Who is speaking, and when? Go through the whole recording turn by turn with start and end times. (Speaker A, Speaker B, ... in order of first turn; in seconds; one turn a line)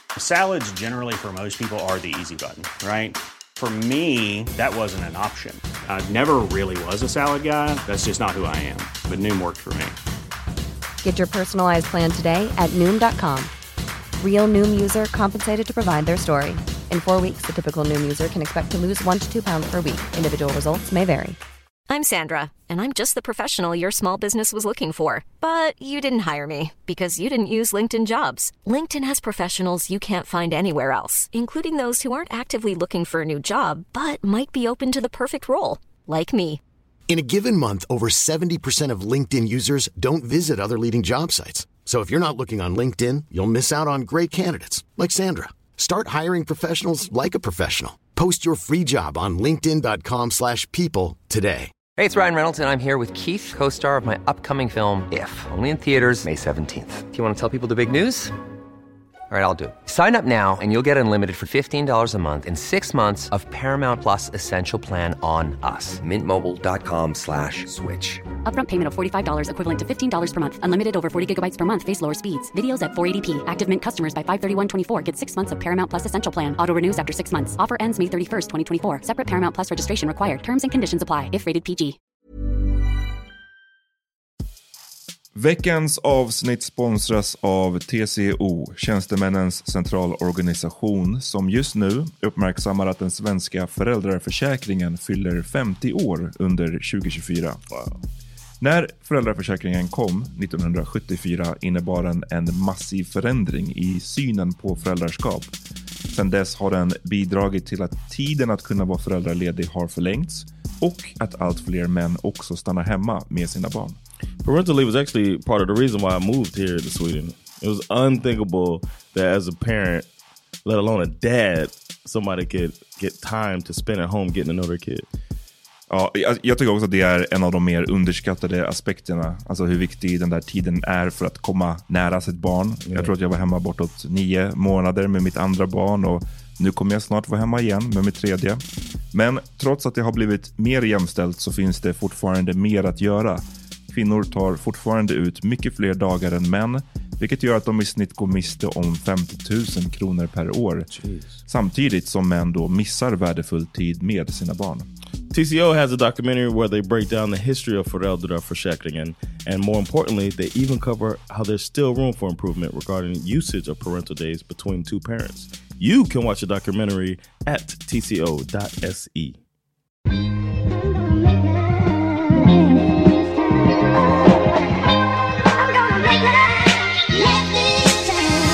Speaker A: 0.2-10.0
Speaker B: 11.0-13.5
Speaker B: 14.2-21.4
Speaker C: 21.9-36.6
Speaker D: 37.1-51.7
Speaker E: 52.0-58.3
Speaker E: 59.3-68.2
Speaker F: 68.5-82.0
Speaker G: 85.3-97.6
Speaker G: 98.6-105.5
Speaker G: 106.1-114.0
Speaker H: 114.4-120.1
Speaker H: 120.7-125.1
Speaker G: 125.9-150.9
Speaker H: 151.0-151.3
Speaker G: 151.5-154.9
Speaker H: 155.3-169.4